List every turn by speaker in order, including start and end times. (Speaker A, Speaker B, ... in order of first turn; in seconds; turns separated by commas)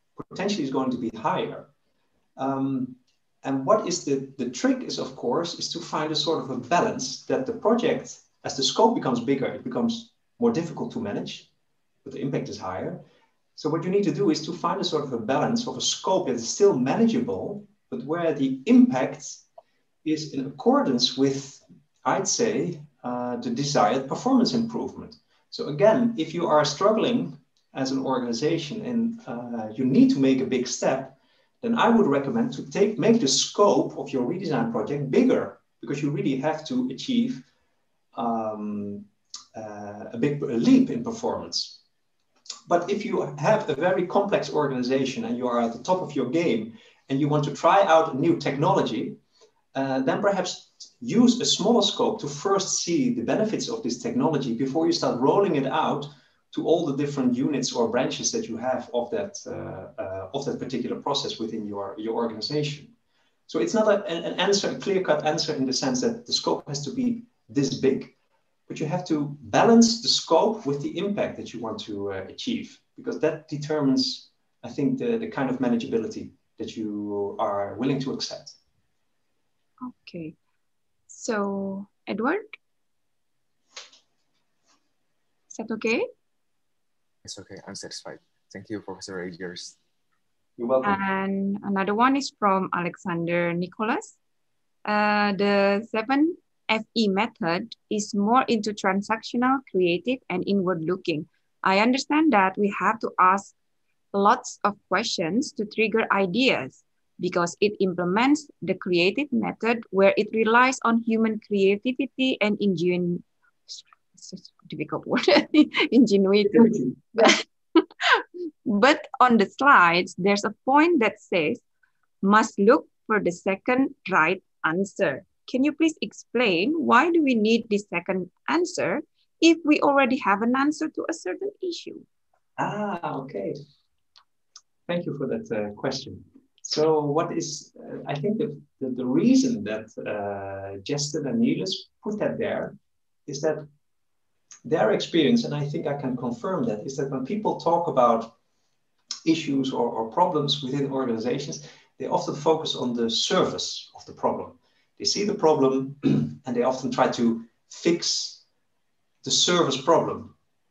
Speaker A: 0.2-1.7, Speaker A: 2.4-11.5, Speaker A: 12.0-13.0, Speaker A: 13.6-19.4, Speaker A: 20.0-37.5, Speaker A: 38.1-41.8, Speaker A: 42.7-49.2, Speaker A: 49.7-62.9, Speaker A: 63.5-68.1, Speaker A: 68.7-78.6, Speaker B: 79.8-80.4, Speaker B: 81.1-82.5, Speaker B: 85.5-86.1, Speaker C: 87.2-89.8, Speaker A: 90.6-91.0, Speaker B: 90.8-94.2, Speaker B: 94.8-103.5, Speaker B: 104.1-121.6, Speaker A: 116.5-117.3, Speaker B: 122.2-132.1, Speaker A: 132.6-133.6, Speaker A: 134.9-142.8, Speaker A: 143.3-143.7, Speaker A: 144.7-148.3, Speaker A: 149.2-158.4, Speaker A: 159.2-160.3